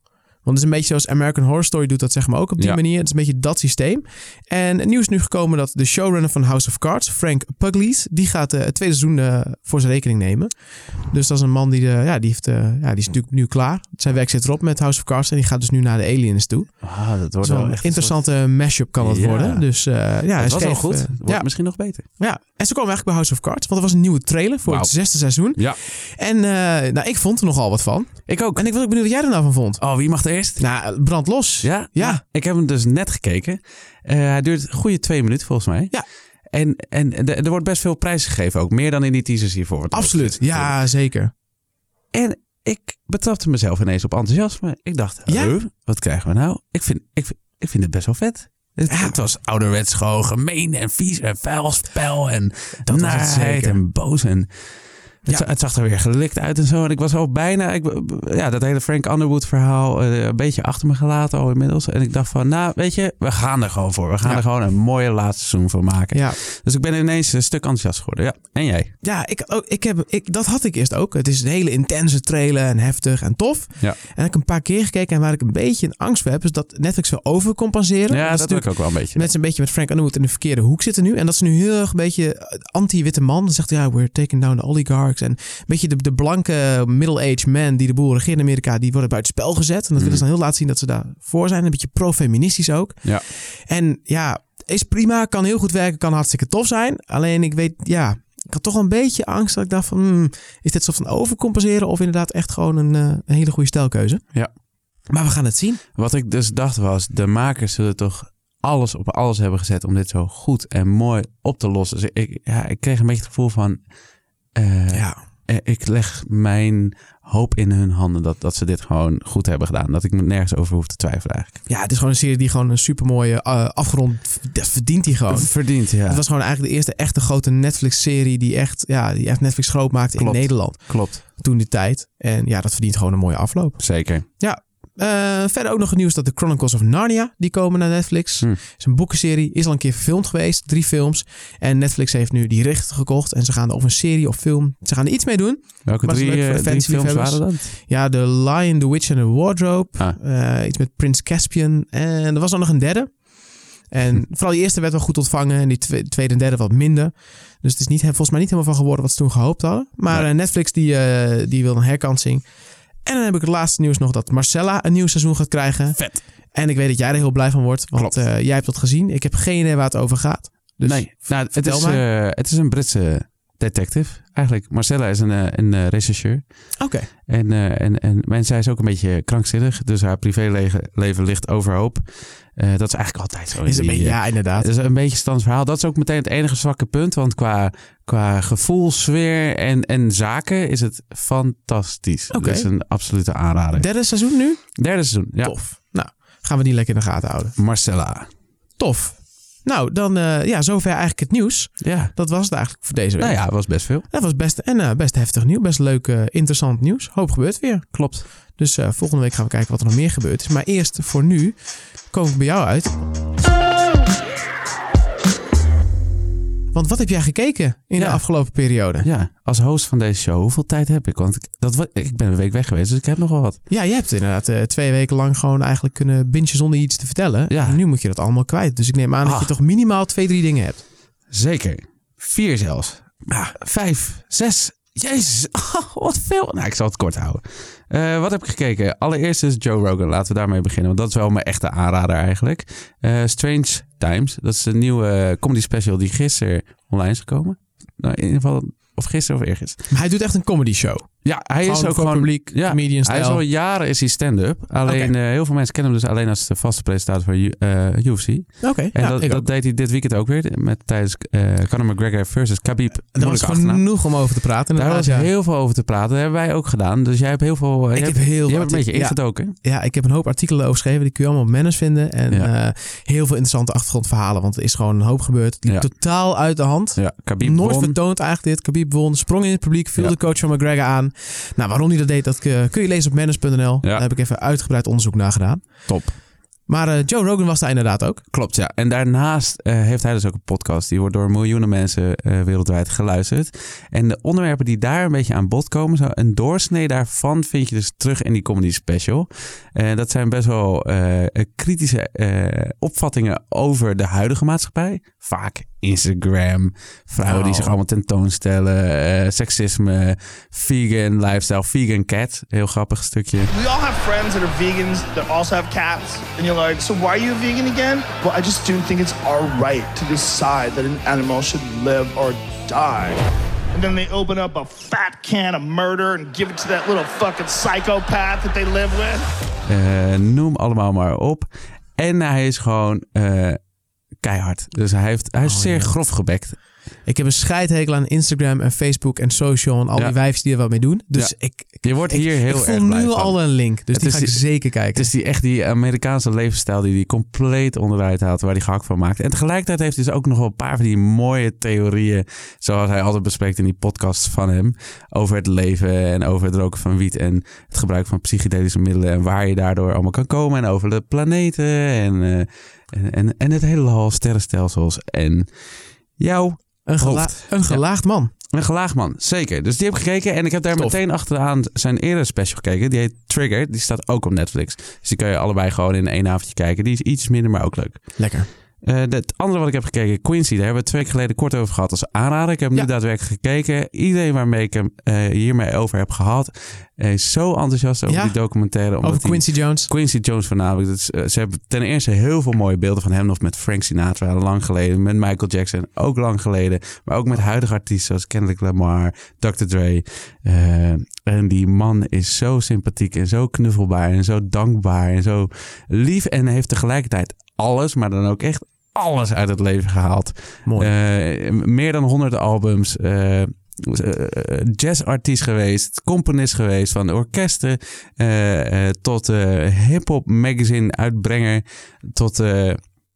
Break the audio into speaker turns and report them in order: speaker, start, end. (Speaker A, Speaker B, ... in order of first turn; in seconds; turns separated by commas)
Speaker A: 0.4-29.8, Speaker B: 16.8-18.2, Speaker B: 19.0-19.6, Speaker B: 20.3-22.0, Speaker B: 24.6-25.0, Speaker B: 28.3-28.6, Speaker B: 29.8-30.6, Speaker A: 30.6-32.2, Speaker B: 31.6-35.9, Speaker B: 36.5-40.7, Speaker A: 39.9-41.3, Speaker B: 42.1-54.5, Speaker A: 45.3-45.5, Speaker A: 48.9-49.1, Speaker A: 52.9-53.8, Speaker B: 55.2-68.9, Speaker A: 66.1-66.4, Speaker A: 69.0-104.2, Speaker B: 78.1-79.3, Speaker B: 90.0-90.2, Speaker A: 105.1-105.8, Speaker B: 106.0-113.8, Speaker B: 114.5-121.6, Speaker A: 114.9-115.2, Speaker A: 121.7-162.5, Speaker B: 125.3-126.2, Speaker B: 130.2-131.2, Speaker B: 133.8-134.2, Speaker B: 145.8-147.7, Speaker A: 163.0-172.0, Speaker B: 166.0-166.2, Speaker B: 170.8-176.4, Speaker A: 176.8-177.1, Speaker B: 177.3-182.0, Speaker B: 182.6-194.1, Speaker A: 183.6-184.7, Speaker A: 192.3-192.7, Speaker A: 193.7-194.7, Speaker B: 194.7-195.6, Speaker A: 195.4-197.6, Speaker B: 197.6-198.3, Speaker A: 198.8-213.0, Speaker B: 201.8-202.1, Speaker B: 203.2-204.0, Speaker B: 207.9-208.3, Speaker A: 216.7-219.1, Speaker B: 217.9-223.6, Speaker A: 223.7-230.8, Speaker B: 227.5-227.8, Speaker B: 229.2-229.5, Speaker B: 231.3-249.9, Speaker A: 233.3-233.5, Speaker A: 249.9-253.4, Speaker B: 251.2-263.9, Speaker A: 254.8-255.1, Speaker A: 258.6-259.4, Speaker A: 263.1-265.3, Speaker B: 264.7-269.5, Speaker A: 267.9-285.9, Speaker B: 276.9-277.9, Speaker B: 285.9-286.1, Speaker A: 286.7-288.2, Speaker B: 288.3-313.5, Speaker A: 307.2-307.7, Speaker C: 313.5-329.3, Speaker B: 329.6-333.6, Speaker B: 334.2-336.6, Speaker A: 335.4-336.0, Speaker A: 337.1-345.1, Speaker B: 339.9-340.3, Speaker B: 341.1-365.5, Speaker B: 366.2-367.8, Speaker A: 366.9-368.3, Speaker B: 368.5-378.2, Speaker A: 378.2-378.5, Speaker B: 378.8-421.6, Speaker A: 388.1-389.9, Speaker A: 410.6-410.9, Speaker B: 422.1-422.8